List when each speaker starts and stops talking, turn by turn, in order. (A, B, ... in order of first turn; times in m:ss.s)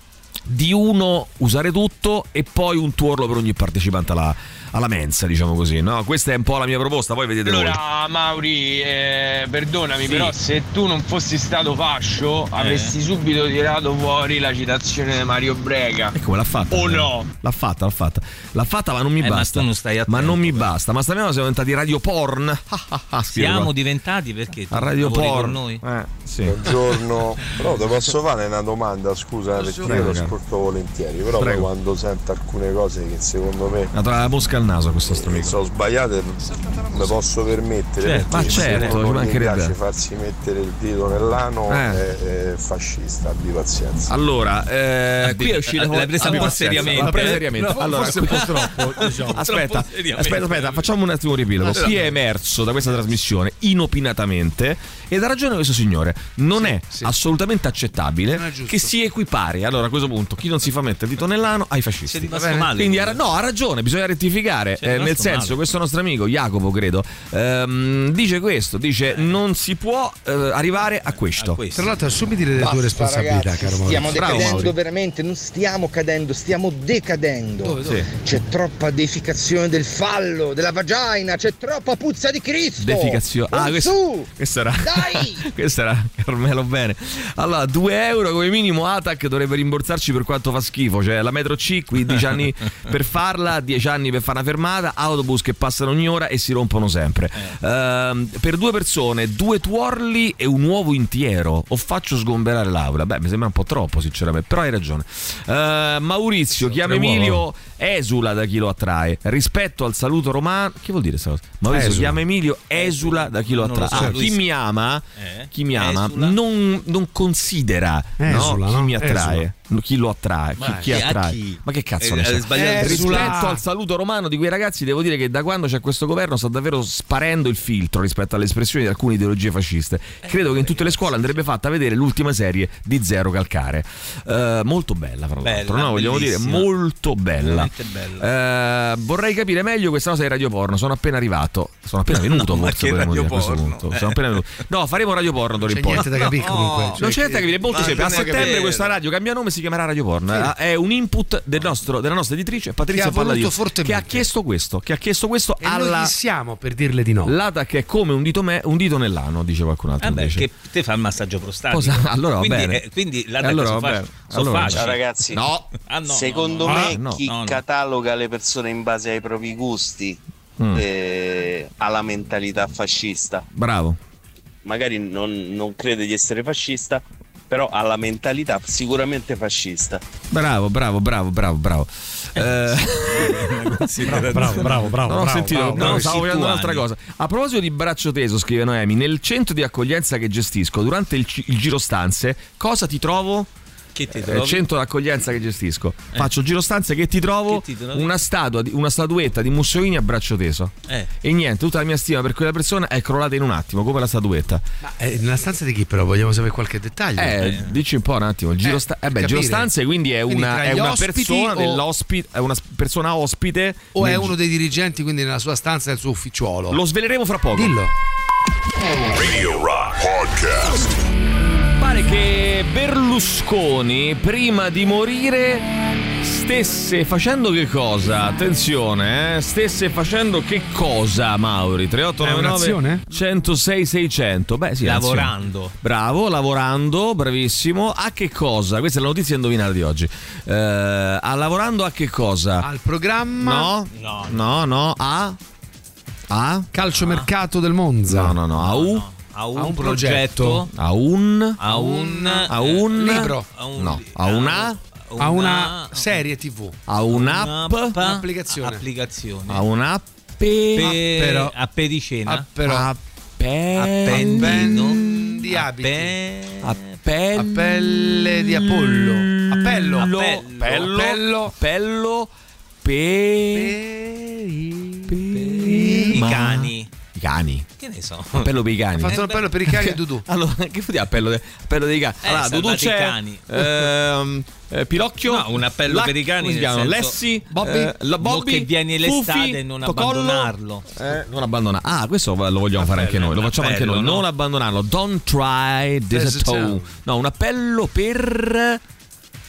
0:00.5-0:07.8 A
0:08.2-0:09.9 B
0:10.0-0:10.4 A
0:10.4-0:16.0 B
0:12.5-0:13.0 C
0:16.1-0:23.7 A
0:19.2-0:20.7 C
0:23.4-0:25.8 C
0:24.7-0:26.7 A
0:26.4-0:33.9 D
0:29.6-0:30.1 E
0:29.8-0:30.3 A
0:31.4-0:31.7 A
0:33.9-0:35.6 A
0:35.1-0:44.2 D
0:36.4-0:37.2 E
0:38.0-0:39.0 C
0:38.3-0:39.8 A
0:41.7-0:42.0 A
0:44.1-1:11.6 A
0:45.2-0:50.9 C
0:46.3-0:49.4 E
0:51.8-0:52.1 E
0:56.6-0:57.1 E
0:58.3-0:58.9 E
1:02.1-1:03.2 C
1:02.3-1:02.7 E
1:04.8-1:05.6 C
1:11.2-1:11.9 C
1:11.8-1:14.7 E
1:12.6-1:24.3 F
1:14.1-1:14.7 A
1:17.6-1:18.1 E
1:22.8-2:36.1 A
1:24.8-1:25.4 F
1:46.8-1:47.2 C
1:47.0-1:47.4 E
1:51.7-1:52.2 E
1:52.8-1:54.4 C
1:53.9-1:54.2 E
1:55.2-1:56.4 C
1:58.2-1:59.5 E
2:00.6-2:00.9 E
2:00.6-2:03.4 C
2:02.6-2:03.6 E
2:10.2-2:11.3 C
2:15.4-2:16.7 C
2:17.4-2:18.3 C
2:22.1-2:24.2 C
2:25.7-2:28.5 E
2:26.0-2:27.1 C
2:27.7-2:28.9 C
2:32.9-2:34.3 E
2:35.6-2:37.4 E
2:37.2-2:40.4 A
2:40.0-2:45.0 C
2:41.7-2:42.8 A
2:43.4-2:45.7 A
2:44.8-2:45.4 G
2:45.9-2:47.6 C
2:46.1-2:50.2 G
2:46.7-2:46.9 E
2:46.8-2:47.3 A
2:50.6-2:50.8 A
2:50.7-2:53.5 G
2:53.5-2:54.0 A
2:54.6-3:00.0 G
3:00.3-3:13.5 A
3:02.4-3:05.0 C
3:04.1-3:06.2 E
3:05.6-3:06.8 C
3:14.0-3:14.7 C
3:14.1-3:24.6 A
3:17.5-3:18.1 C
3:24.8-3:27.4 E
3:27.2-3:34.3 A
3:27.4-3:27.8 C
3:28.6-3:29.7 E
3:30.3-3:31.8 E
3:34.0-3:36.8 E
3:36.7-3:37.8 A
3:37.5-3:37.9 E
3:39.1-3:41.0 H
3:41.8-3:45.7 A
3:46.2-4:02.7 A
3:52.2-3:53.1 E
3:54.8-3:55.7 C
4:02.6-4:03.7 E
4:03.4-4:05.4 A
4:03.9-4:04.5 C
4:06.3-4:06.7 A
4:06.7-4:08.4 E
4:07.0-4:07.3 C
4:08.1-4:09.0 A
4:08.6-4:10.7 C
4:09.6-4:10.6 E
4:10.7-4:11.6 A
4:11.6-4:16.2 C
4:11.7-4:13.5 E
4:12.5-4:14.8 A
4:15.2-4:16.8 E
4:16.9-4:18.0 A
4:17.2-4:19.6 C
4:18.0-4:18.8 E
4:19.5-4:21.0 A
4:20.8-4:22.5 C
4:21.0-4:21.5 E
4:22.3-4:22.9 E
4:22.6-4:25.0 A
4:23.8-4:26.8 C
4:24.1-4:26.1 E
4:26.6-4:32.3 A
4:27.4-4:31.5 E
4:30.0-4:30.9 C
4:32.8-4:33.8 A
4:33.5-4:36.2 E
4:35.1-4:37.7 A
4:35.4-4:36.9 C
4:37.8-4:38.5 C
4:38.4-4:58.8 A
4:39.0-4:40.2 E
4:39.1-4:39.5 C
4:42.2-4:43.7 C
4:45.3-4:47.2 C
4:47.5-4:47.9 E
4:48.2-4:50.9 C
4:52.9-4:54.2 C
4:56.1-4:56.9 E